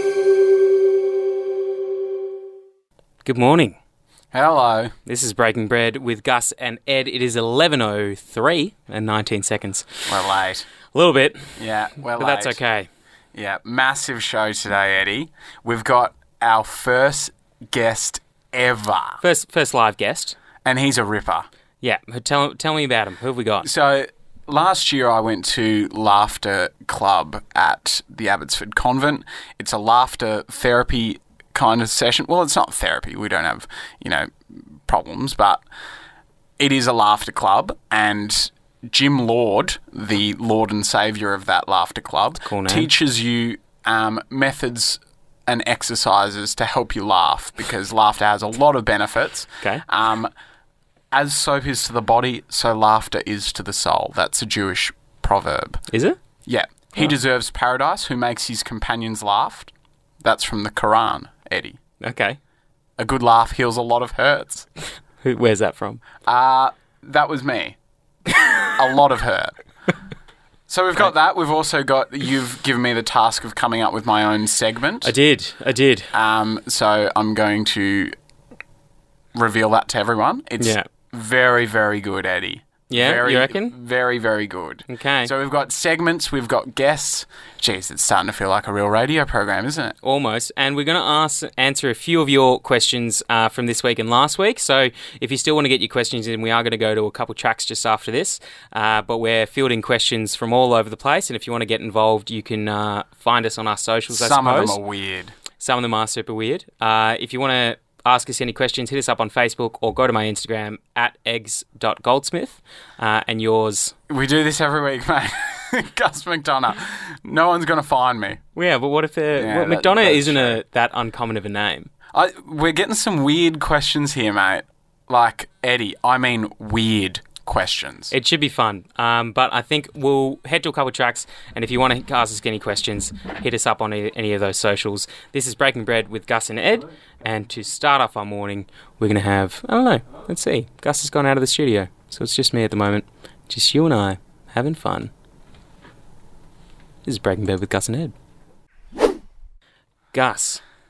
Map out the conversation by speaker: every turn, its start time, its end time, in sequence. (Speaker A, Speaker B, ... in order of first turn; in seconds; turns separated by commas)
Speaker A: 3.2-3.8, Speaker B: 4.3-4.9, Speaker A: 5.1-9.9, Speaker B: 10.1-10.7, Speaker A: 10.9-11.5, Speaker B: 11.6-12.6, Speaker A: 12.2-12.9, Speaker B: 13.3-19.2, Speaker A: 19.2-20.4, Speaker B: 20.6-21.5, Speaker A: 21.8-23.7, Speaker B: 23.6-34.3, Speaker B: 34.9-35.6, Speaker B: 36.6-50.3, Speaker A: 42.4-42.9, Speaker B: 51.1-55.8, Speaker A: 55.9-56.2, Speaker B: 56.5-59.7, Speaker B: 60.2-61.8, Speaker A: 62.0-62.4, Speaker B: 63.0-64.7, Speaker A: 65.2-66.0, Speaker B: 66.3-67.8, Speaker B: 68.6-69.5, Speaker B: 70.7-75.1, Speaker A: 75.0-76.1, Speaker B: 76.1-78.2, Speaker B: 79.3-90.0, Speaker A: 80.6-80.8, Speaker A: 82.9-83.7, Speaker A: 84.9-85.3, Speaker A: 90.0-104.8, Speaker B: 104.1-105.3, Speaker A: 105.6-113.9, Speaker B: 114.1-118.4, Speaker A: 118.6-121.9, Speaker B: 119.4-120.6, Speaker B: 122.1-128.1, Speaker A: 128.1-145.1, Speaker A: 147.1-148.1, Speaker A: 150.1-150.6